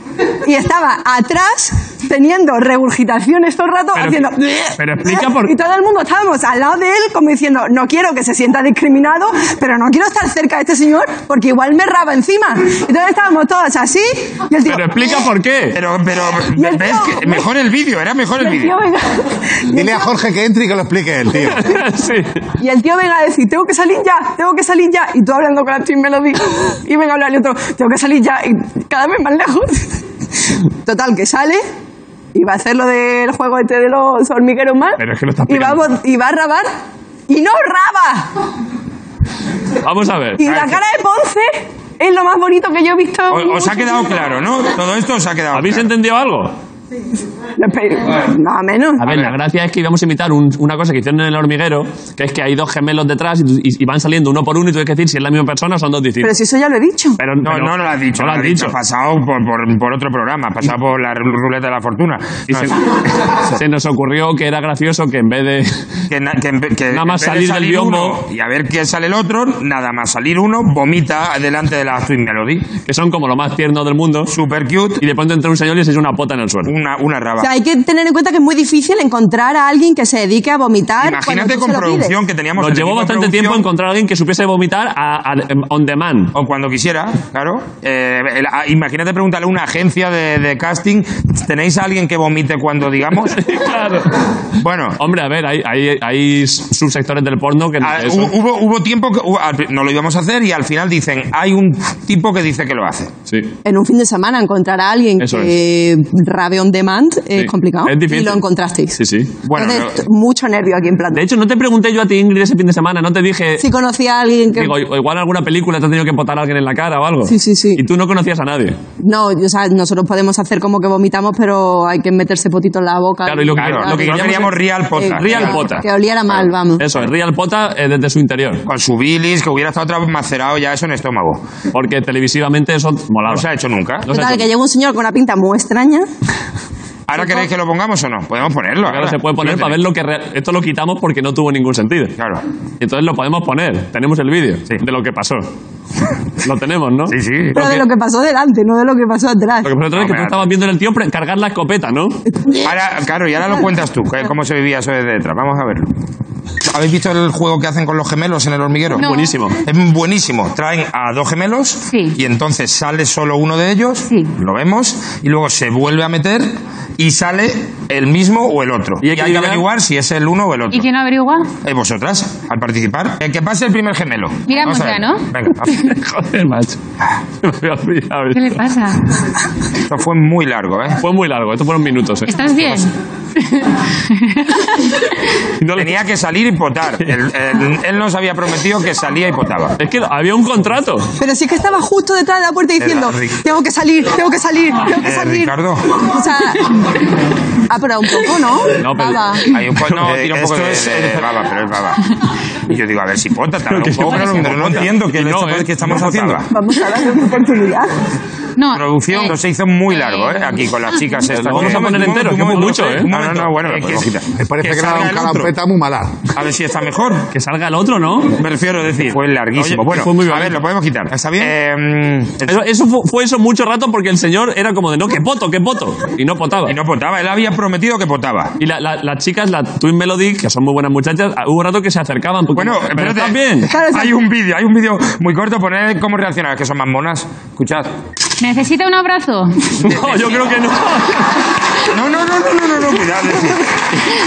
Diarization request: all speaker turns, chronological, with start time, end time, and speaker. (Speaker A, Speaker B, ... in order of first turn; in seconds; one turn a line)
Speaker A: 0.4-15.2
Speaker B: 3.9-5.5
Speaker B: 14.6-15.8
Speaker C: 15.7-18.8
Speaker A: 16.6-17.4
Speaker A: 18.4-20.2
Speaker D: 19.7-21.8
Speaker B: 21.5-22.4
Speaker A: 22.6-30.0
Speaker A: 30.8-31.6
Speaker A: 32.3-36.7
Speaker B: 35.0-35.9
Speaker A: 37.3-38.3
Speaker B: 39.8-40.5
Speaker A: 40.4-43.9
Speaker C: 40.4-40.8
Speaker C: 43.3-45.9
Speaker B: 45.5-46.5
Speaker A: 47.6-49.0
Speaker B: 49.0-56.4
Speaker A: 56.2-57.2
Speaker B: 57.2-58.8
Speaker C: 57.4-63.4
Speaker B: 62.5-62.8
Speaker B: 63.4-65.9
Speaker C: 66.1-72.7
Speaker B: 66.9-68.2
Speaker B: 72.8-74.3
Speaker C: 74.3-75.0
Speaker B: 75.0-76.7
Speaker C: 76.7-77.5
Speaker A: 77.4-82.2
Speaker C: 81.0-83.6
Speaker B: 82.5-86.3
Speaker C: 86.3-93.4
Speaker B: 93.2-94.2
Speaker C: 94.6-95.0
Speaker B: 95.0-98.3
Speaker C: 97.8-103.1
Speaker B: 103.3-103.5
Speaker A: 103.6-109.0
Speaker B: 105.2-105.5
Speaker B: 107.3-108.4
Speaker B: 109.0-109.4
Speaker C: 109.4-110.0
Speaker A: 109.5-111.2
Speaker B: 111.1-113.7
Speaker A: 113.6-114.7
Speaker B: 114.5-118.8
Speaker A: 117.2-117.8
Speaker A: 119.0-126.8
Speaker B: 123.2-125.9
Speaker C: 123.5-125.8
Speaker B: 126.8-128.6
Speaker C: 128.6-131.4
Speaker B: 131.7-133.4
Speaker C: 133.2-134.1
Speaker B: 134.1-134.5
Speaker A: 134.1-136.1
Speaker C: 137.1-139.8
Speaker B: 138.8-142.2
Speaker C: 142.2-142.4
Speaker B: 142.8-145.5
Speaker B: 146.4-147.8
Speaker C: 147.1-147.7
Speaker A: 147.5-149.7
Speaker B: 149.6-152.2
Speaker C: 149.8-150.5
Speaker A: 152.3-152.7
Speaker C: 152.6-155.9
Speaker C: 156.6-159.1
Speaker B: 159.0-159.6
Speaker E: 159.0-159.3
Speaker C: 159.6-170.9
Speaker E: 161.9-162.2
Speaker B: 169.0-169.7
Speaker E: 170.7-171.5
Speaker C: 171.6-175.9
Speaker E: 174.5-175.3
Speaker B: 175.7-176.8
Speaker B: 177.4-178.7
Speaker E: 178.3-179.1
Speaker C: 179.8-181.0
Speaker B: 181.0-182.8
Speaker E: 182.3-184.7
Speaker B: 185.6-185.9
Speaker C: 185.7-189.8
Speaker B: 189.8-191.1
Speaker A: 191.2-196.9
Speaker C: 192.8-193.4
Speaker C: 195.0-196.0
Speaker A: 197.7-199.5
Speaker B: 198.8-201.2
Speaker C: 199.4-202.0
Speaker C: 202.6-206.5
Speaker B: 203.7-206.4
Speaker A: 206.5-207.9
Speaker E: 208.6-209.3
Speaker C: 208.7-215.5
Speaker E: 209.9-210.6
Speaker B: 211.3-214.0
Speaker D: 214.3-216.2
Speaker C: 216.3-217.3
Speaker B: 217.3-218.4
Speaker C: 218.3-222.6
Speaker B: 219.5-220.6
Speaker B: 222.4-226.8
Speaker C: 226.7-228.5
Speaker B: 228.6-233.7
Speaker C: 232.5-237.9
Speaker A: 233.7-234.1
Speaker E: 238.4-239.7
Speaker B: 239.7-241.4
Speaker C: 239.8-240.5
Speaker C: 241.9-243.7